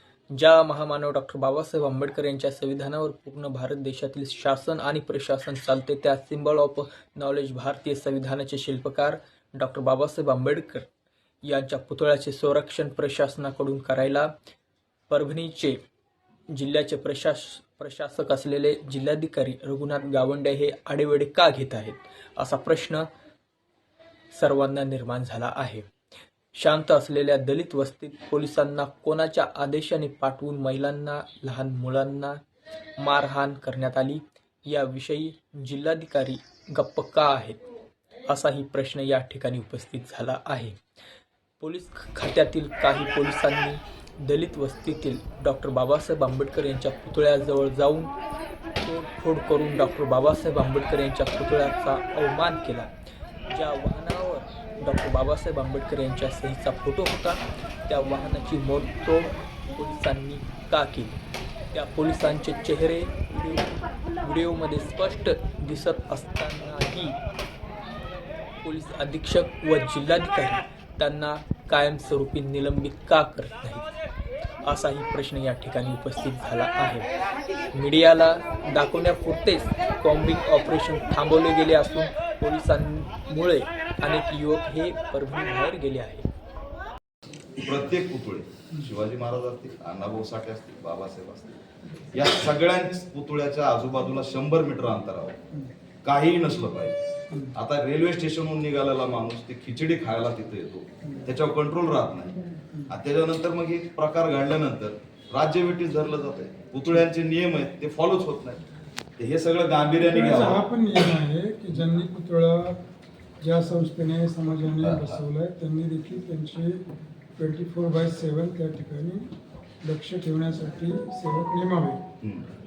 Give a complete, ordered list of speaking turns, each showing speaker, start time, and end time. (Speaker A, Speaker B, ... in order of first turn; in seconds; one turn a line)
Speaker A: 0.3-10.9
Speaker A: 11.5-14.3
Speaker A: 15.1-15.8
Speaker A: 16.5-23.1
Speaker A: 24.3-25.9
Speaker A: 26.6-32.4
Speaker A: 33.0-37.6
Speaker A: 38.3-40.8
Speaker A: 41.6-48.1
Speaker A: 48.8-52.9
Speaker A: 53.5-61.2
Speaker A: 61.7-67.2
Speaker A: 68.6-73.9
Speaker A: 74.6-77.1
Speaker A: 77.7-86.3
Speaker B: 87.6-91.6
Speaker B: 92.1-95.4
Speaker B: 96.0-97.0
Speaker B: 97.5-108.7
Speaker B: 109.2-110.6
Speaker C: 110.0-112.8
Speaker C: 113.4-116.8
Speaker B: 114.8-115.2
Speaker C: 117.4-119.2
Speaker C: 119.8-122.0
Speaker B: 122.2-122.5